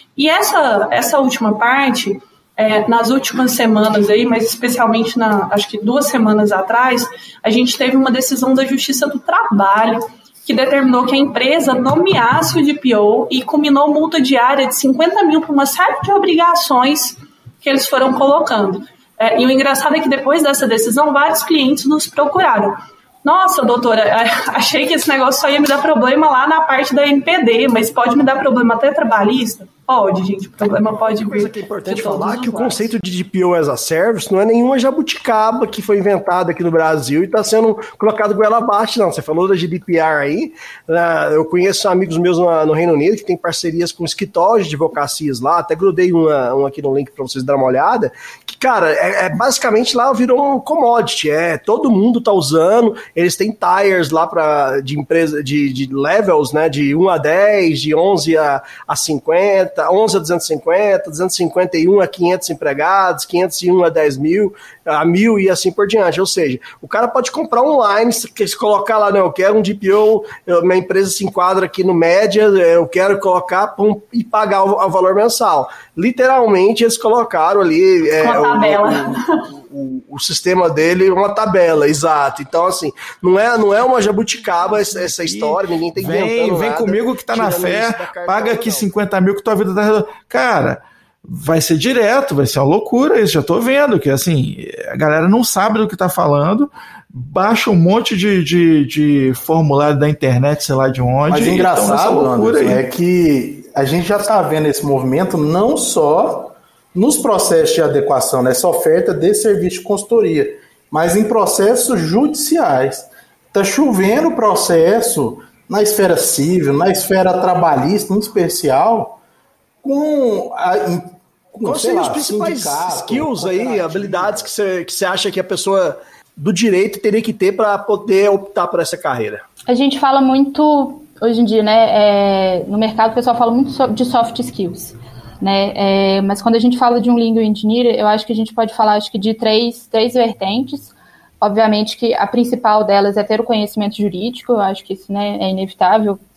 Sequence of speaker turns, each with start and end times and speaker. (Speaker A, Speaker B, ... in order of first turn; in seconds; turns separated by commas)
Speaker A: 0.2-32.9, Speaker B: 30.6-88.9, Speaker A: 78.2-79.4, Speaker C: 84.4-102.8, Speaker D: 101.3-119.2, Speaker D: 119.8-124.5, Speaker B: 121.6-129.4, Speaker E: 129.7-146.2